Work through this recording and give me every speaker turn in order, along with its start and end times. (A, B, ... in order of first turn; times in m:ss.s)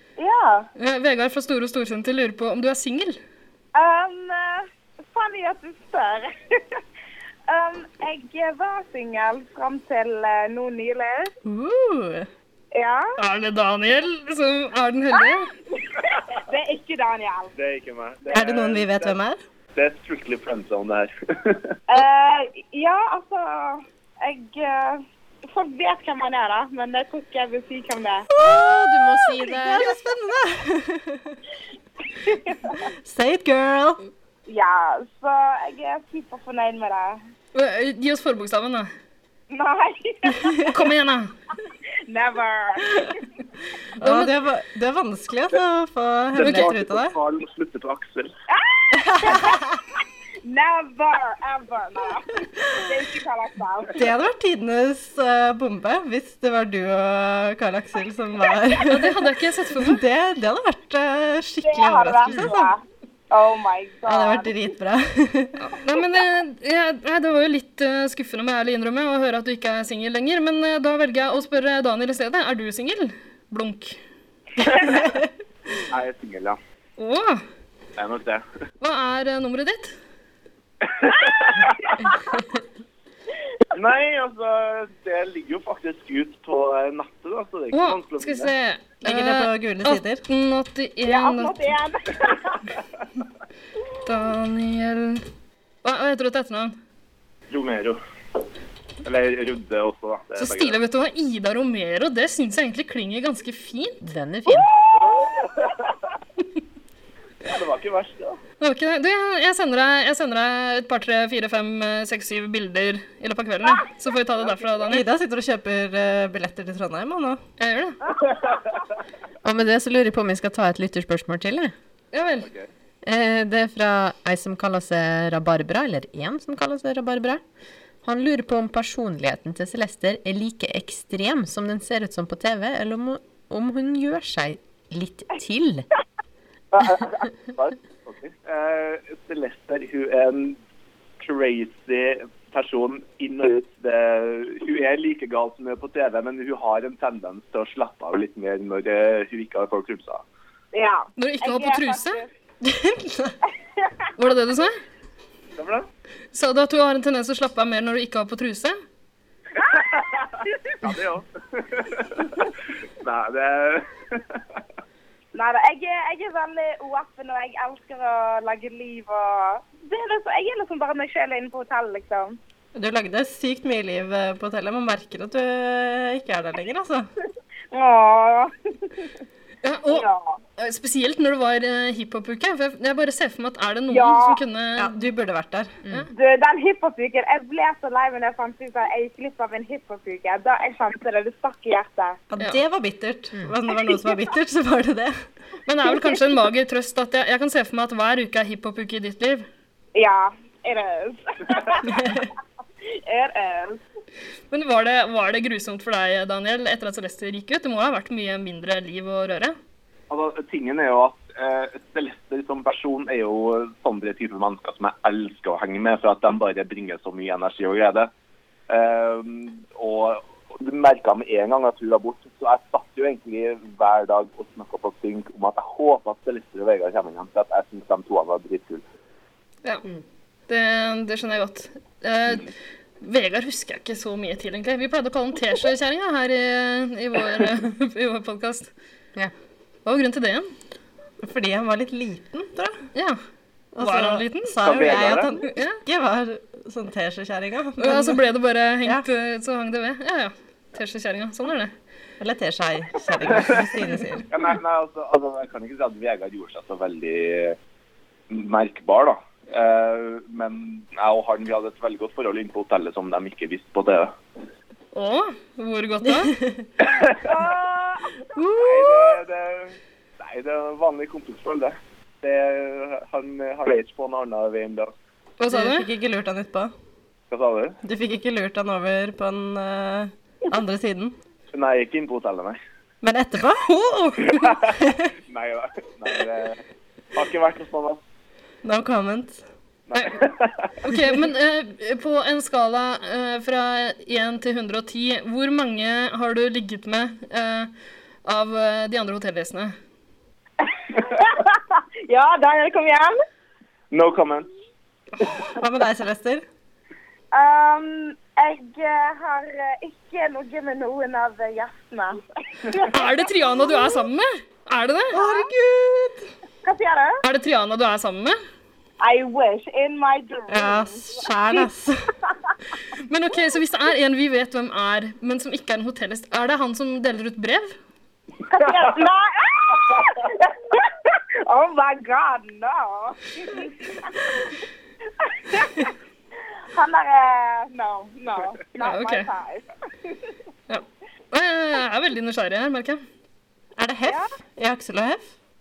0:00.2-0:00.7 A
0:00.8-0:03.2 B
0:03.7-0:06.8 A
0:07.5-0:11.3 A
0:11.4-0:12.3 C
0:12.7-0:13.1 A
0:13.2-0:15.5 B
0:15.1-0:17.5 A
0:17.5-0:19.2 D
0:18.3-0:19.4 C
0:19.8-0:21.7 D
0:21.9-0:28.2 A
0:28.3-0:31.3 C
0:28.4-0:29.9 E
0:32.2-0:32.7 A
0:33.0-0:34.0 C
0:34.5-0:37.2 A
0:37.5-0:38.9 B
0:39.5-0:40.7 A
0:40.7-0:41.3 B
0:42.1-0:43.2 A
0:44.0-0:44.3 B
0:44.0-0:47.2 C
0:46.3-0:48.3 D
0:46.4-0:46.7 B
0:48.5-0:49.6 A
0:49.0-0:49.6 C
0:50.4-0:54.0 A
0:53.9-0:59.2 C
0:58.8-1:00.0 B
0:59.8-1:02.7 C
1:01.6-1:04.5 A
1:04.1-1:05.5 C
1:05.6-1:14.0 B
1:14.9-1:15.2 C
1:15.9-1:16.6 D
1:17.0-1:17.4 B
1:18.0-1:18.4 D
1:18.8-1:20.0 B
1:21.0-1:21.7 D
1:23.7-1:28.5 D
1:27.7-1:31.6 B
1:29.0-1:30.2 C
1:31.0-1:32.6 A
1:34.0-1:35.2 B
1:35.8-1:36.8 B
1:37.5-1:38.0 D
1:39.0-1:40.8 D
1:40.4-1:44.0 B
1:44.0-1:44.7 E
1:44.5-1:45.3 A
1:44.9-1:45.8 D
1:47.4-1:48.4 D
1:48.6-1:55.0 B
1:54.5-1:54.8 D
1:54.9-1:57.4 C
1:57.6-1:58.0 B
1:59.4-2:01.7 E
2:02.1-2:02.5 B
2:02.4-2:02.7 D
2:03.0-2:07.4 E
2:08.0-2:15.8 E
2:16.7-2:20.6 D
2:21.2-2:30.2 D
2:30.7-2:32.3 A
2:31.2-2:32.2 B
2:32.6-2:33.3 C
2:34.2-2:34.8 B
2:35.6-2:35.9 D
2:36.3-2:38.8 B
2:39.7-2:42.5 D
2:43.0-2:44.2 D
2:45.3-2:52.4 A
2:52.7-2:57.1 C
2:57.7-2:59.1 A
2:59.6-3:00.0 B
2:59.9-3:00.4 A
3:00.6-3:05.0 B
3:03.9-3:04.4 A
3:04.8-3:05.7 C
3:06.1-3:12.2 A
3:12.3-3:15.2 C
3:15.6-3:19.4 B
3:19.9-3:22.1 A
3:21.9-3:22.3 C
3:23.1-3:23.8 A
3:24.5-3:29.6 B
3:30.1-3:38.1 D
3:38.7-3:48.8 D
3:50.5-3:52.5 B
3:53.0-3:58.7 B
3:59.8-4:00.5 B
4:01.2-4:02.8 C
4:02.9-4:03.2 B
4:03.7-4:08.2 C
4:03.8-4:05.8 B
4:04.6-4:05.4 D
4:07.8-4:11.7 B
4:12.2-4:14.3 C
4:13.4-4:13.6 D
4:14.3-4:17.6 D
4:18.3-4:24.1 D
4:24.9-4:26.3 B
4:26.2-4:26.6 C
4:26.8-4:27.4 D
4:27.2-4:28.1 A
4:28.6-4:34.9 D
4:35.4-4:35.9 B
4:35.5-4:36.7 C
4:37.3-4:37.8 D
4:37.8-4:41.1 C
4:41.5-4:42.6 D
4:43.0-4:43.6 C
4:43.6-4:44.6 B
4:44.3-4:44.7 D
4:45.3-4:46.6 D
4:47.1-4:48.0 D
4:48.6-4:49.4 C
4:49.9-4:50.5 D
4:49.9-4:50.2 B
4:50.8-4:57.7 B
4:58.2-4:59.7 B
5:00.6-5:03.2 A
5:03.9-5:04.5 D
5:05.6-5:06.4 C
5:07.3-5:13.0 A
5:12.9-5:15.2 B
5:13.6-5:14.0 A
5:15.1-5:16.2 C
5:15.2-5:15.5 A
5:16.6-5:17.2 A
5:17.2-5:18.4 B
5:19.0-5:21.6 A
5:20.5-5:22.0 C
5:23.0-5:27.8 B
5:28.5-5:34.2 A
5:35.2-5:35.9 A
5:36.7-5:40.2 A
5:38.8-5:39.3 B
5:40.7-5:43.0 B
5:43.8-5:45.3 C